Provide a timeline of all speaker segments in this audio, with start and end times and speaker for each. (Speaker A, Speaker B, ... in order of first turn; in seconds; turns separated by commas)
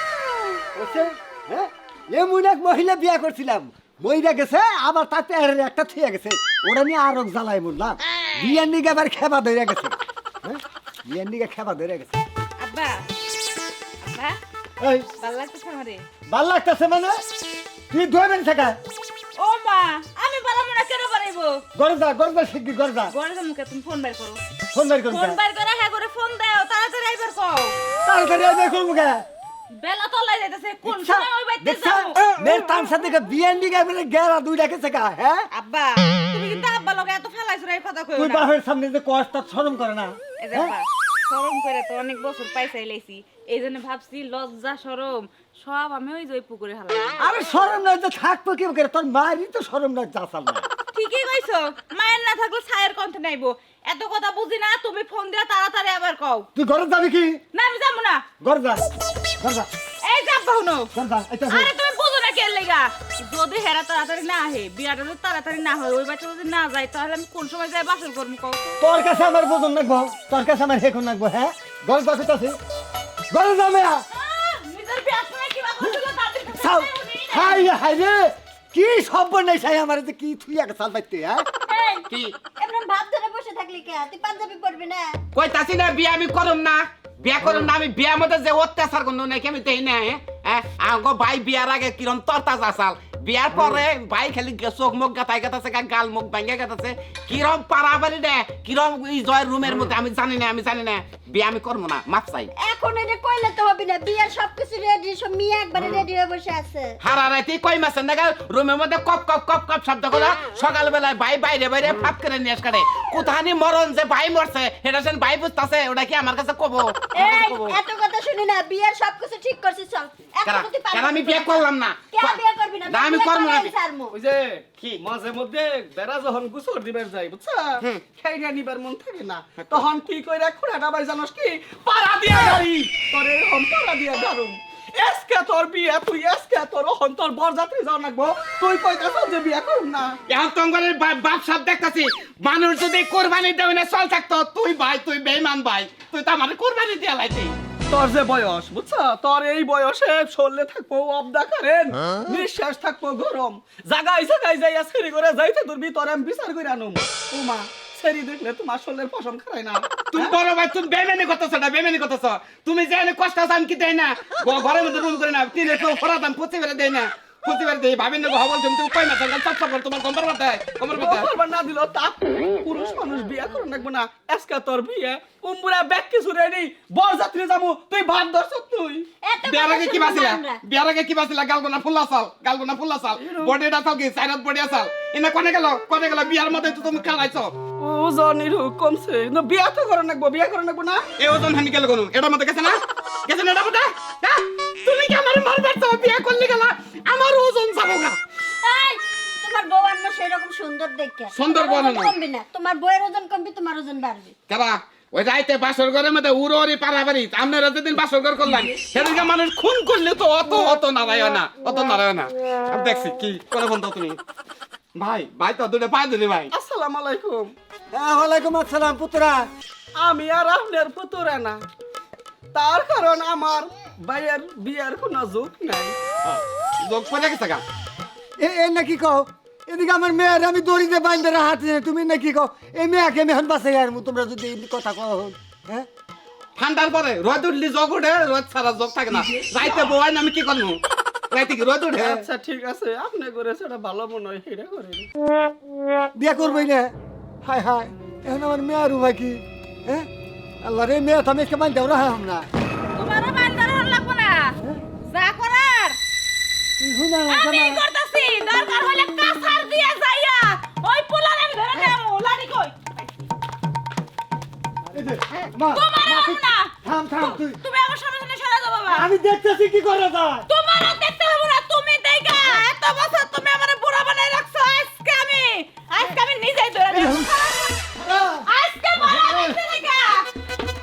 Speaker A: 0.7-12.1, Speaker B: 12.6-13.1, Speaker B: 14.0-14.4, Speaker A: 14.8-15.1, Speaker B: 15.2-16.0, Speaker A: 16.3-17.2, Speaker A: 17.9-18.8, Speaker B: 19.4-21.6, Speaker A: 21.7-23.1, Speaker B: 23.1-24.4, Speaker A: 24.7-25.4, Speaker B: 25.1-27.7, Speaker A: 28.0-29.2, Speaker B: 29.7-32.1, Speaker A: 30.8-35.4, Speaker B: 35.5-38.5, Speaker A: 38.1-40.7, Speaker B: 40.4-47.4, Speaker A: 47.2-50.6, Speaker B: 50.9-56.5, Speaker A: 56.5-57.4, Speaker B: 57.5-58.2, Speaker A: 58.4-58.8, Speaker A: 59.4-59.7, Speaker B: 60.0-60.9, Speaker A: 60.9-61.7, Speaker B: 61.5-68.8, Speaker A: 68.8-72.5, Speaker A: 73.3-74.0, Speaker B: 74.1-77.7, Speaker A: 76.5-81.5, Speaker C: 81.7-85.2, Speaker D: 82.1-82.3, Speaker D: 85.3-102.5, Speaker C: 102.6-107.0, Speaker D: 107.0-117.8, Speaker C: 117.1-124.2, Speaker D: 120.4-123.8, Speaker E: 124.1-140.2, Speaker D: 129.6-129.8, Speaker D: 140.3-147.5, Speaker E: 147.9-160.2, Speaker D: 160.1-171.3, Speaker E: 170.9-179.1, Speaker C: 179.2-180.6, Speaker D: 179.4-187.5, Speaker E: 183.2-183.6, Speaker E: 187.8-191.1, Speaker D: 191.2-198.2, Speaker C: 198.6-204.3, Speaker D: 201.3-202.2, Speaker D: 204.5-214.2, Speaker D: 214.9-216.5, Speaker E: 216.5-217.5, Speaker A: 217.9-219.4, Speaker E: 220.0-221.6, Speaker E: 222.5-225.9, Speaker D: 226.2-227.6, Speaker A: 228.4-235.9, Speaker D: 236.6-240.8, Speaker D: 241.3-242.2, Speaker E: 242.0-245.1, Speaker A: 246.2-246.9, Speaker A: 247.4-250.1, Speaker A: 250.6-252.4, Speaker B: 252.9-256.0, Speaker A: 256.8-257.8, Speaker B: 257.3-262.8, Speaker A: 264.9-267.6, Speaker B: 265.7-266.7, Speaker B: 267.3-269.1, Speaker A: 268.9-270.5, Speaker B: 270.5-280.3, Speaker A: 276.9-277.3, Speaker A: 277.9-278.5, Speaker A: 279.0-279.6